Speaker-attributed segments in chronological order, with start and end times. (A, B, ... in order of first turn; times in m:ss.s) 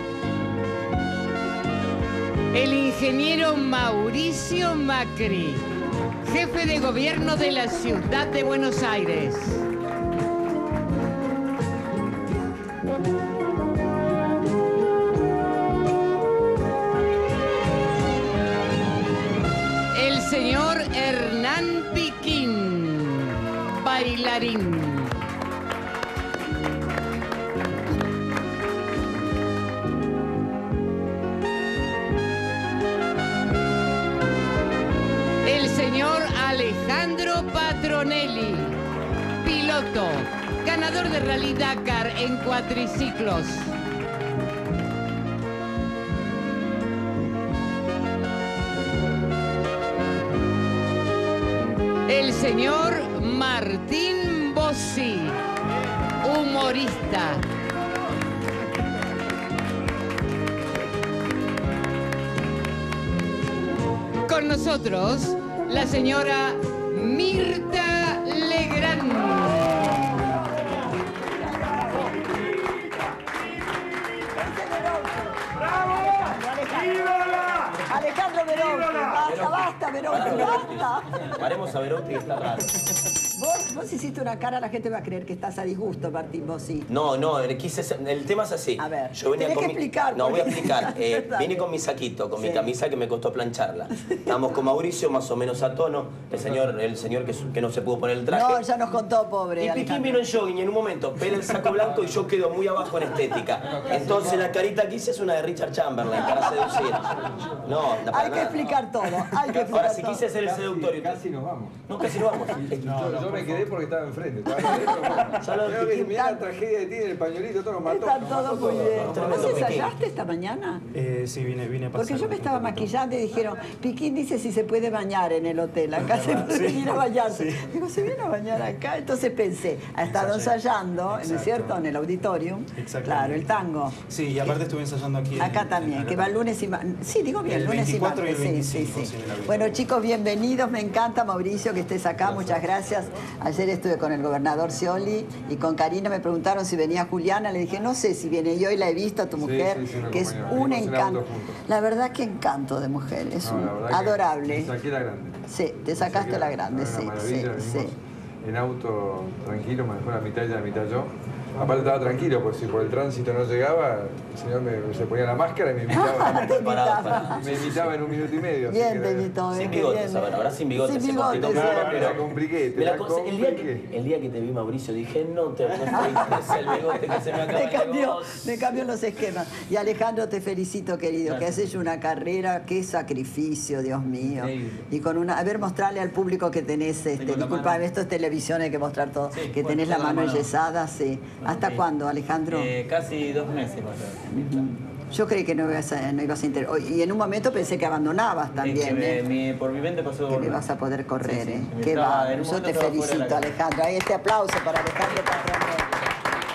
0:02.5-0:05.7 A
0:06.2-0:09.7 A
0:19.9-0:25.2 A
0:35.4-0:38.8 A
0:39.4-0:43.7 A
0:52.1-0:55.4 A
0:56.2-0:57.4 A
1:04.2-1:09.9 A
1:11.6-1:12.1 B
1:14.3-1:21.4 B
1:19.2-1:22.8 C
1:23.3-1:26.9 B
1:26.9-1:38.6 C
1:28.8-1:31.7 B
1:32.4-1:32.7 B
1:36.4-1:36.8 D
1:38.3-1:40.2 B
1:39.6-1:48.8 C
1:43.6-1:44.6 D
1:48.1-1:50.2 B
1:49.4-1:51.2 C
1:50.4-1:51.8 D
1:51.9-1:53.0 C
1:52.7-1:59.9 D
1:52.8-1:53.7 E
1:54.8-1:55.3 B
1:55.3-1:56.2 C
1:55.9-1:56.4 B
1:57.8-2:00.8 B
1:59.0-1:59.9 C
2:00.9-2:02.9 E
2:01.9-2:14.6 B
2:06.0-2:07.7 E
2:10.0-2:10.5 E
2:11.1-2:11.8 E
2:12.8-2:16.4 E
2:15.4-2:34.7 B
2:17.4-2:19.8 E
2:22.2-2:23.0 D
2:29.4-2:31.6 D
2:33.4-2:46.7 D
2:35.5-2:37.9 B
2:45.9-2:47.4 B
2:46.1-2:47.9 C
2:47.2-2:49.4 D
2:48.7-2:52.2 B
2:49.5-2:58.8 C
2:51.4-2:53.8 D
2:55.9-2:56.6 B
2:57.3-3:12.7 B
3:01.2-3:01.7 F
3:04.3-3:04.8 F
3:07.2-3:07.8 F
3:09.3-3:10.5 F
3:11.4-3:11.8 F
3:12.5-3:14.6 F
3:14.3-3:19.2 B
3:18.6-3:20.6 F
3:20.3-3:26.0 B
3:21.2-3:23.5 F